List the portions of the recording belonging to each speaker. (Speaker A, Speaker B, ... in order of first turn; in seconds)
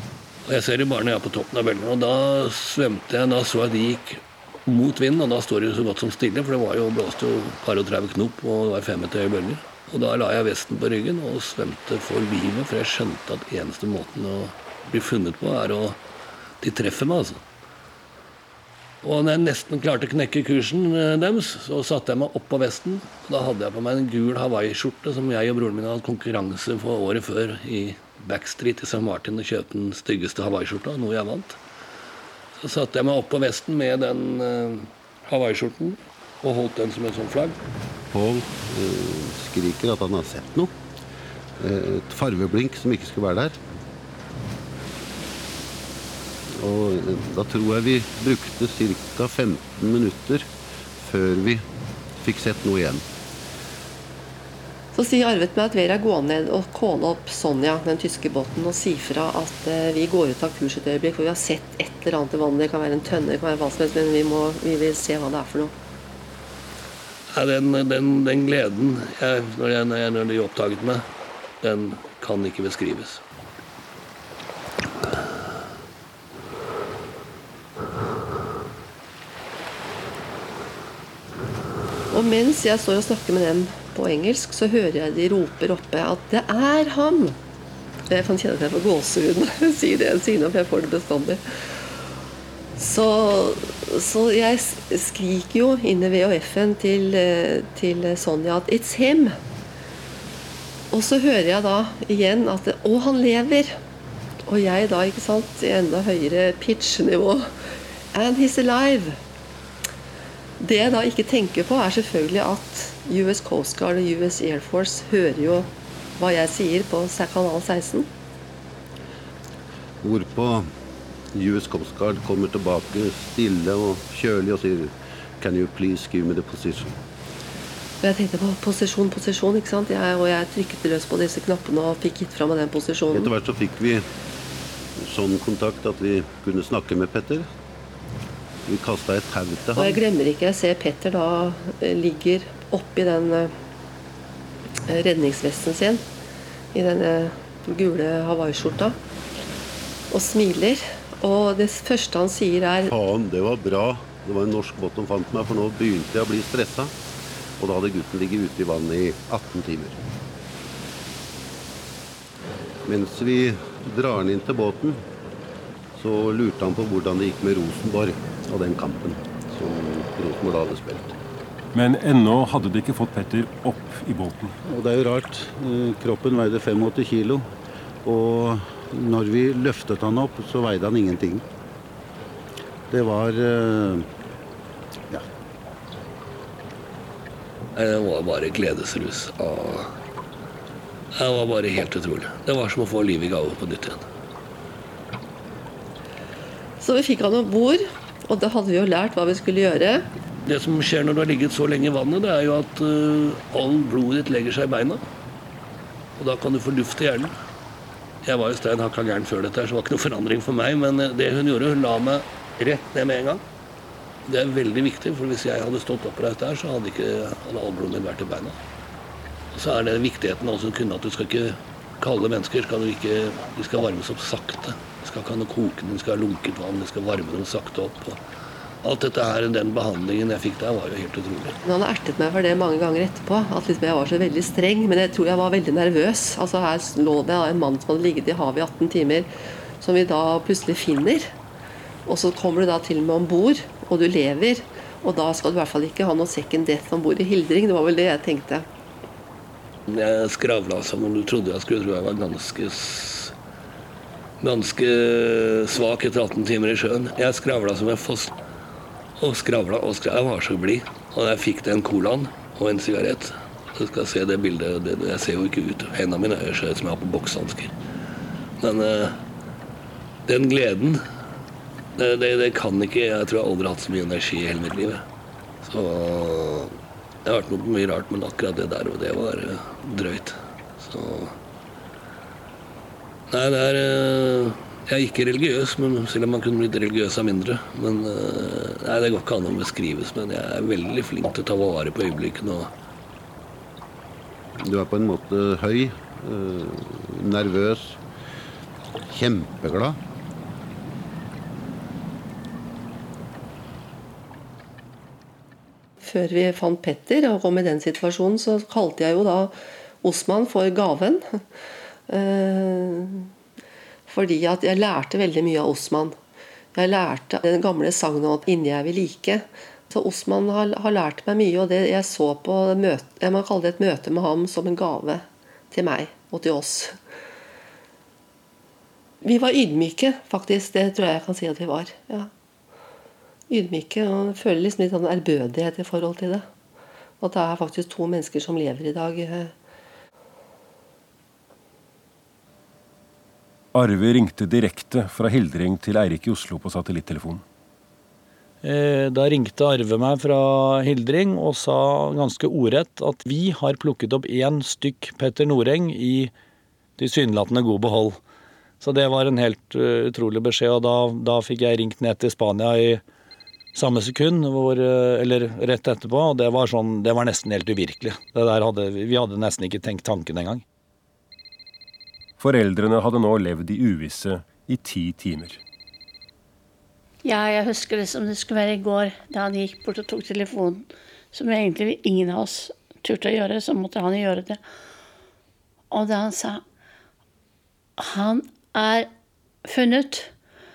Speaker A: 0.4-16.0, 16.6-17.4, 19.0-31.6, 32.6-37.6, 67.3-71.0, 71.6-73.2, 187.8-189.9, 191.1-194.0, 200.4-205.0, 206.2-207.3, 208.2-213.4, 214.2-218.6, 219.5-228.2, 228.8-231.6, 249.9-253.3, 254.4-258.3, 259.2-267.7, 268.6-269.2, 270.2-271.0, 271.9-275.0, 275.6-281.4, 283.3-292.7
Speaker B: 38.1-40.7, 41.6-43.6, 46.5-51.6, 52.2-53.0, 120.0-120.7, 121.3-127.0, 133.1-134.0, 135.0-137.4, 138.7-140.0, 152.9-156.9, 157.6-160.0, 162.8-165.0, 165.9-171.1, 174.6-177.5, 178.0-181.4, 182.9-184.1, 294.6-298.0, 299.0-300.0
Speaker C: 54.9-65.7, 82.1-87.4, 88.1-91.4, 92.8-99.4, 100.9-103.8, 104.5-107.5, 108.1-109.2, 110.6-118.1, 128.0-133.3, 139.8-143.5, 144.9-146.0, 146.7-149.0, 150.1-152.9, 196.8-200.1, 231.6-239.3, 239.8-241.3, 242.1-248.7, 306.0-311.4, 312.1-313.3, 314.1-316.1, 316.7-327.0, 329.2-332.3, 333.5-336.4, 337.2-339.5
Speaker D: 171.7-174.6, 343.7-347.4, 372.4-375.6
Speaker E: 348.6-356.3, 357.0-358.2, 358.8-363.0, 363.7-370.6
Speaker F: 377.2-384.6, 385.9-386.6, 388.0-389.1, 389.6-390.3